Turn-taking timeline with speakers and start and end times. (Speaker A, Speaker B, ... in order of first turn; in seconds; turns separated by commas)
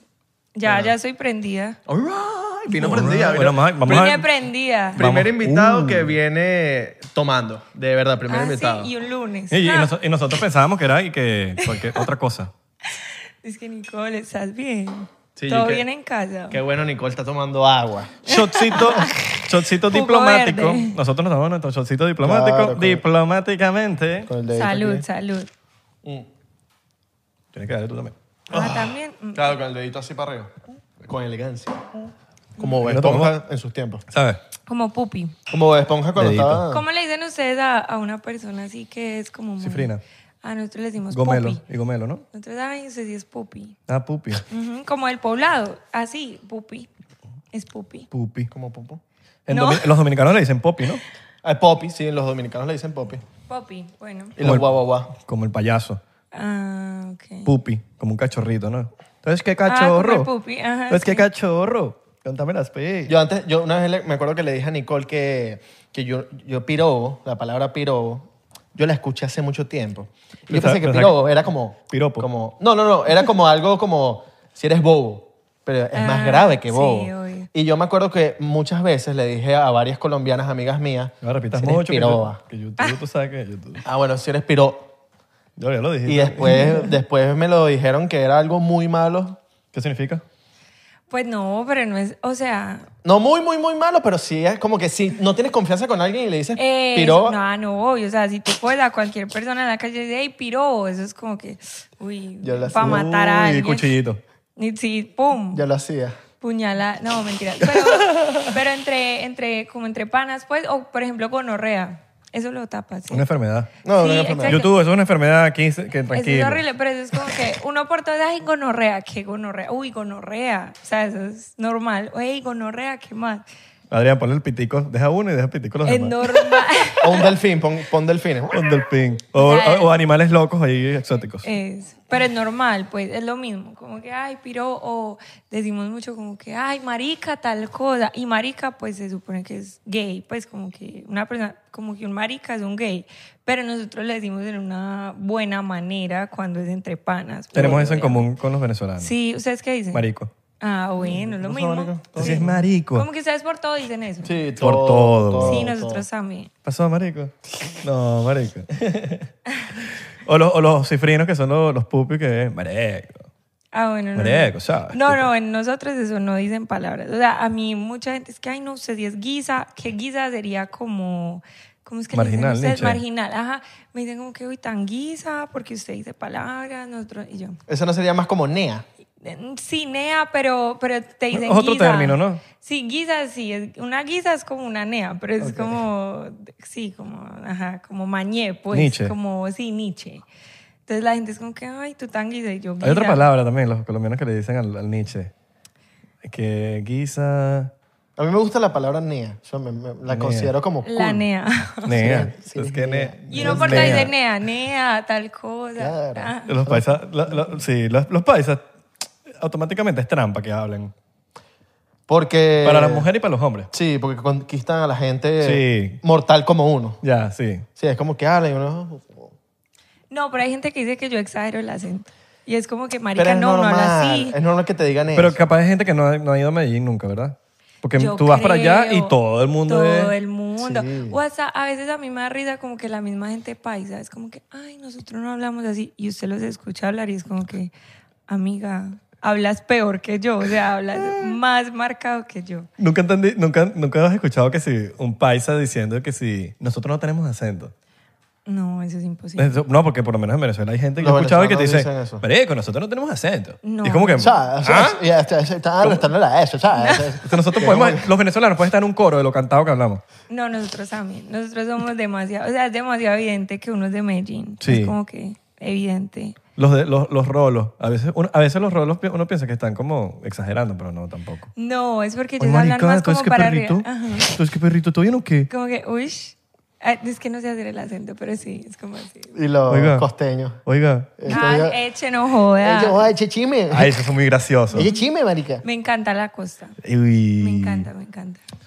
Speaker A: 0.5-1.8, Speaker B: 0.6-0.9, Speaker B: 1.9-4.1, Speaker C: 2.7-4.3, Speaker A: 3.8-5.0, Speaker B: 4.9-8.9, Speaker C: 5.0-6.1, Speaker A: 8.3-9.9, Speaker C: 9.5-12.5, Speaker A: 11.6-12.1, Speaker A: 12.8-16.6, Speaker B: 15.4-15.8, Speaker B: 16.5-18.2, Speaker C: 18.2-24.3, Speaker A: 18.3-20.9, Speaker B: 22.2-23.0, Speaker B: 24.2-25.1, Speaker A: 24.5-25.5, Speaker C: 27.5-28.1, Speaker B: 28.5-34.0, Speaker A: 28.5-29.6, Speaker C: 32.8-33.4, Speaker C: 34.1-34.4, Speaker A: 34.7-35.3, Speaker B: 35.5-36.9, Speaker C: 36.1-36.6, Speaker A: 36.7-39.9, Speaker C: 39.6-40.0, Speaker A: 40.4-41.6, Speaker C: 41.1-42.2, Speaker A: 42.3-43.8, Speaker C: 43.9-44.4, Speaker A: 44.5-46.9, Speaker A: 47.5-48.1, Speaker C: 48.1-48.5, Speaker B: 48.5-49.0, Speaker C: 49.5-51.0, Speaker A: 49.5-49.9, Speaker B: 51.4-53.2, Speaker A: 53.5-54.4, Speaker B: 54.4-55.1, Speaker C: 54.4-56.0, Speaker A: 56.3-57.5, Speaker C: 57.4-60.3, Speaker A: 59.6-61.2, Speaker C: 60.9-63.1, Speaker B: 63.1-82.4, Speaker C: 70.5-71.3, Speaker C: 71.9-72.3, Speaker A: 75.9-77.5, Speaker C: 81.2-83.8, Speaker B: 83.8-84.9, Speaker C: 85.6-86.9, Speaker B: 86.0-89.4, Speaker C: 89.7-90.2, Speaker A: 91.1-92.8, Speaker B: 93.0-97.4, Speaker A: 96.6-103.9, Speaker B: 102.4-103.1, Speaker C: 102.8-104.2, Speaker A: 104.6-105.6, Speaker B: 105.5-106.2, Speaker A: 106.4-113.3, Speaker C: 107.6-108.5, Speaker C: 113.1-113.7, Speaker B: 113.8-114.6, Speaker A: 113.9-114.8, Speaker C: 114.5-116.6, Speaker A: 116.1-123.4, Speaker C: 123.9-126.6, Speaker A: 125.8-127.3, Speaker B: 127.0-128.7, Speaker C: 128.5-131.5, Speaker A: 129.3-129.9, Speaker A: 131.4-148.3, Speaker B: 147.5-148.1, Speaker C: 147.5-149.1, Speaker A: 149.0-150.0, Speaker C: 149.9-150.3, Speaker A: 150.6-154.4, Speaker B: 151.0-152.6, Speaker C: 152.2-153.1, Speaker B: 154.2-156.0, Speaker C: 154.6-155.7, Speaker A: 155.4-156.5, Speaker C: 156.6-159.3, Speaker C: 160.2-163.2, Speaker A: 163.7-177.6, Speaker C: 164.1-165.3, Speaker C: 172.1-173.0, Speaker B: 177.7-178.8, Speaker A: 179.2-190.2, Speaker C: 181.3-182.4, Speaker B: 185.4-185.8, Speaker C: 188.7-189.1, Speaker A: 190.9-193.3, Speaker C: 192.8-195.3, Speaker C: 196.2-197.7, Speaker B: 198.2-201.3, Speaker C: 200.1-200.5, Speaker A: 200.8-202.0, Speaker C: 201.8-204.1, Speaker B: 201.8-204.1, Speaker A: 203.3-206.6, Speaker B: 205.8-207.5, Speaker C: 206.5-208.6, Speaker C: 209.4-210.9, Speaker B: 212.1-213.1, Speaker C: 212.6-213.7, Speaker B: 213.7-217.0, Speaker C: 215.4-216.0, Speaker C: 217.0-217.7, Speaker B: 217.8-219.3, Speaker A: 220.1-224.4, Speaker B: 223.2-225.4, Speaker C: 225.1-230.1, Speaker A: 227.9-237.7, Speaker B: 230.6-231.2, Speaker A: 238.3-242.7, Speaker C: 242.8-247.7, Speaker A: 248.4-249.6, Speaker C: 249.4-255.0, Speaker B: 251.0-252.2, Speaker A: 253.6-254.3, Speaker B: 254.2-258.1, Speaker A: 256.8-257.2, Speaker C: 257.2-260.0, Speaker A: 260.3-266.4, Speaker C: 264.6-264.9, Speaker C: 266.6-271.5, Speaker A: 271.6-274.3, Speaker C: 272.4-275.5, Speaker A: 275.5-279.3, Speaker B: 279.3-280.6, Speaker C: 279.7-280.1, Speaker C: 280.6-281.4, Speaker B: 281.2-281.8, Speaker A: 281.3-283.1, Speaker B: 282.6-284.0, Speaker C: 283.7-284.9, Speaker B: 284.7-285.6, Speaker A: 284.8-285.0, Speaker A: 285.6-286.8, Speaker C: 286.8-287.9, Speaker A: 287.4-288.4